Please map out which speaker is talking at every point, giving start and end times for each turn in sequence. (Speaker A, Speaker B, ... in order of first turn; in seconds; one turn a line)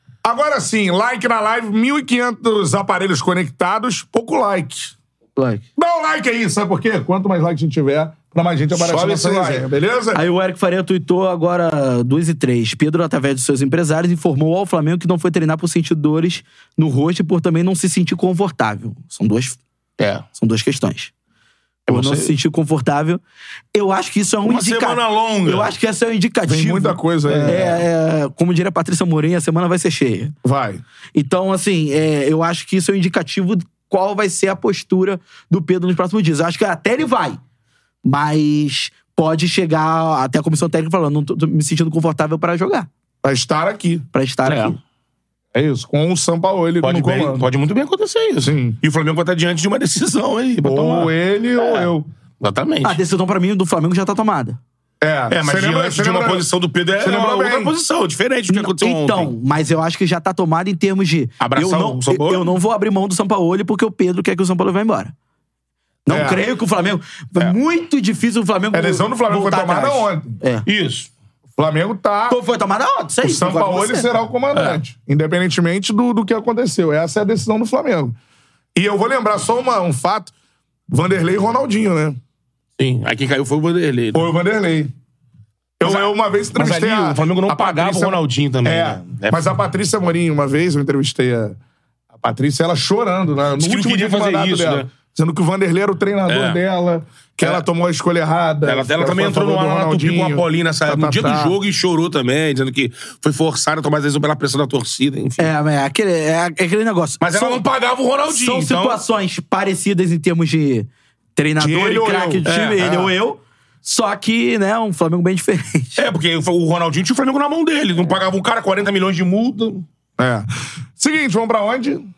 Speaker A: 0.2-4.9
Speaker B: 5.4-5.6
Speaker A: 5.8-10.2
Speaker C: 8.7-9.7
Speaker B: 10.1-19.6
Speaker C: 20.0-20.2
Speaker B: 20.3-21.1
Speaker C: 21.9-22.3
Speaker B: 21.9-23.2
Speaker B: 23.7-30.3
Speaker C: 24.4-25.7
Speaker A: 26.5-27.7
Speaker C: 27.3-27.8
Speaker A: 30.4-30.8
Speaker B: 31.1-37.4
Speaker B: 38.0-42.9
Speaker A: 43.2-44.1
Speaker B: 44.1-44.8
Speaker C: 44.5-44.8
Speaker A: 45.5-47.5
Speaker C: 46.8-53.0
Speaker A: 48.4-48.8
Speaker A: 50.6-52.1
Speaker B: 52.8-54.6
Speaker A: 55.0-56.5
Speaker C: 55.3-59.3
Speaker A: 57.0-57.7
Speaker B: 58.5-65.1
Speaker C: 61.4-62.5
Speaker B: 66.1-70.7
Speaker A: 66.1-66.4
Speaker A: 68.7-70.4
Speaker C: 70.7-71.1
Speaker A: 71.6-72.4
Speaker B: 72.3-74.1
Speaker A: 73.2-78.2
Speaker C: 74.5-74.8
Speaker A: 78.8-80.3
Speaker A: 80.9-82.2
Speaker C: 82.8-84.3
Speaker A: 84.1-84.9
Speaker A: 85.8-91.6
Speaker C: 85.8-89.4
Speaker A: 92.2-101.5
Speaker C: 93.6-94.9
Speaker C: 96.3-96.6
Speaker C: 98.7-105.5
Speaker B: 105.4-107.6
Speaker C: 107.2-109.0
Speaker B: 108.3-116.0
Speaker A: 111.6-113.1
Speaker C: 112.5-112.9
Speaker C: 116.0-119.8
Speaker A: 120.2-122.1